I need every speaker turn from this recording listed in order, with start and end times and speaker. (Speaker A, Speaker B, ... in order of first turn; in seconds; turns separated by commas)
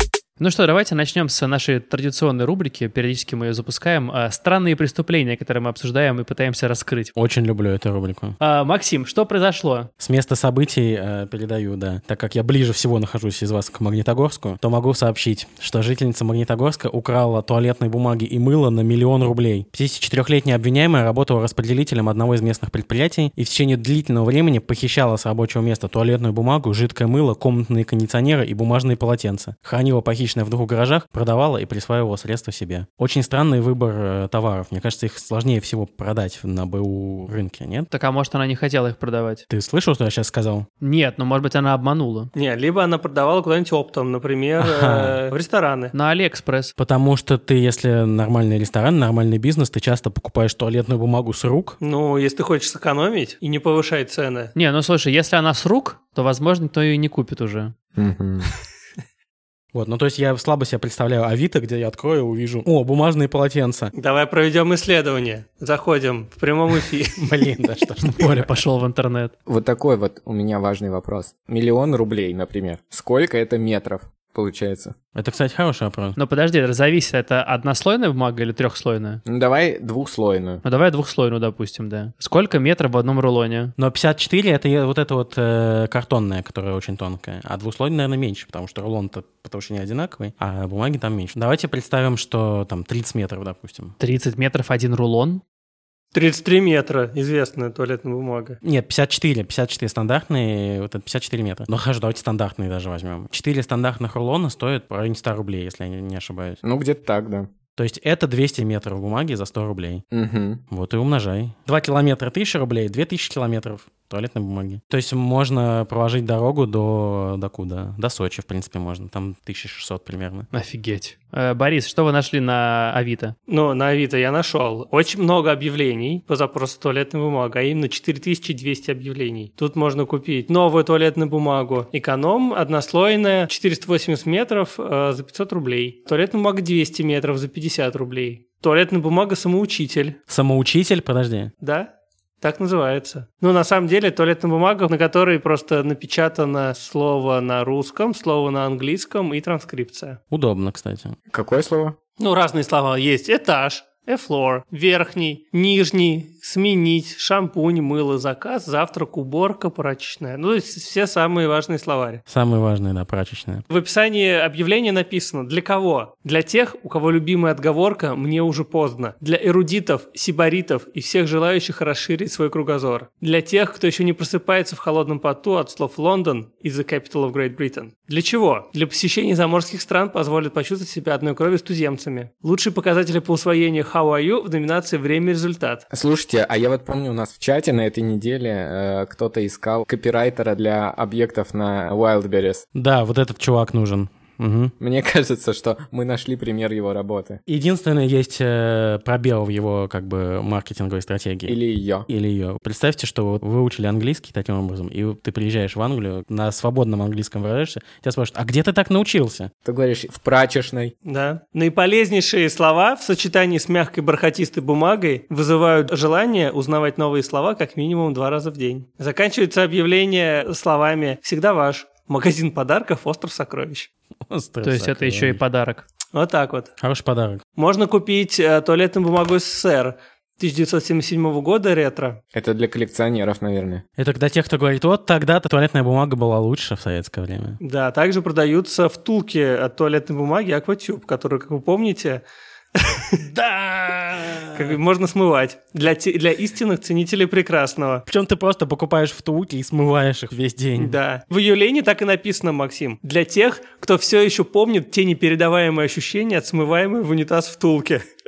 Speaker A: 0.4-7.1, Speaker B: 7.2-8.4, Speaker A: 8.4-9.9, Speaker B: 10.0-37.9, Speaker A: 37.9-39.5, Speaker B: 39.5-40.7, Speaker A: 40.8-42.3, Speaker C: 42.3-45.9, Speaker B: 44.6-45.2, Speaker A: 45.9-46.7, Speaker B: 46.8-51.8, Speaker C: 51.8-54.5, Speaker A: 54.5-57.7, Speaker D: 58.0-58.5, Speaker B: 59.7-63.9, Speaker C: 63.9-67.3, Speaker B: 67.2-68.6, Speaker A: 68.2-69.3, Speaker D: 69.5-74.9, Speaker B: 75.1-76.2, Speaker A: 76.2-79.2, Speaker D: 79.3-80.6, Speaker A: 80.6-83.7, Speaker B: 83.8-94.0, Speaker A: 94.0-95.4, Speaker C: 96.1-98.6, Speaker B: 98.6-106.6, Speaker D: 106.6-107.5, Speaker B: 107.8-110.0, Speaker D: 110.1-110.6, Speaker B: 110.7-120.5, Speaker A: 120.5-123.3, Speaker C: 123.5-140.2, Speaker B: 140.3-141.5, Speaker C: 141.6-141.9, Speaker C: 142.4-150.2, Speaker B: 150.3-151.1, Speaker D: 151.3-151.9, Speaker C: 152.2-162.2, Speaker B: 162.3-163.7, Speaker C: 163.7-185.8, Speaker D: 185.9-192.7, Speaker B: 192.8-194.7, Speaker D: 194.8-197.4, Speaker B: 197.5-201.6, Speaker D: 201.5-202.1, Speaker B: 202.1-209.5, Speaker D: 209.7-210.9, Speaker C: 211.1-223.9, Speaker B: 224.3-225.4, Speaker A: 224.6-225.8, Speaker C: 226.1-226.7, Speaker B: 226.8-227.4, Speaker C: 227.6-232.2, Speaker D: 232.3-233.8, Speaker B: 234.0-237.6, Speaker C: 237.6-242.2, Speaker C: 242.8-243.3, Speaker B: 243.3-244.8, Speaker C: 244.4-248.1, Speaker B: 248.1-251.0, Speaker C: 250.8-258.0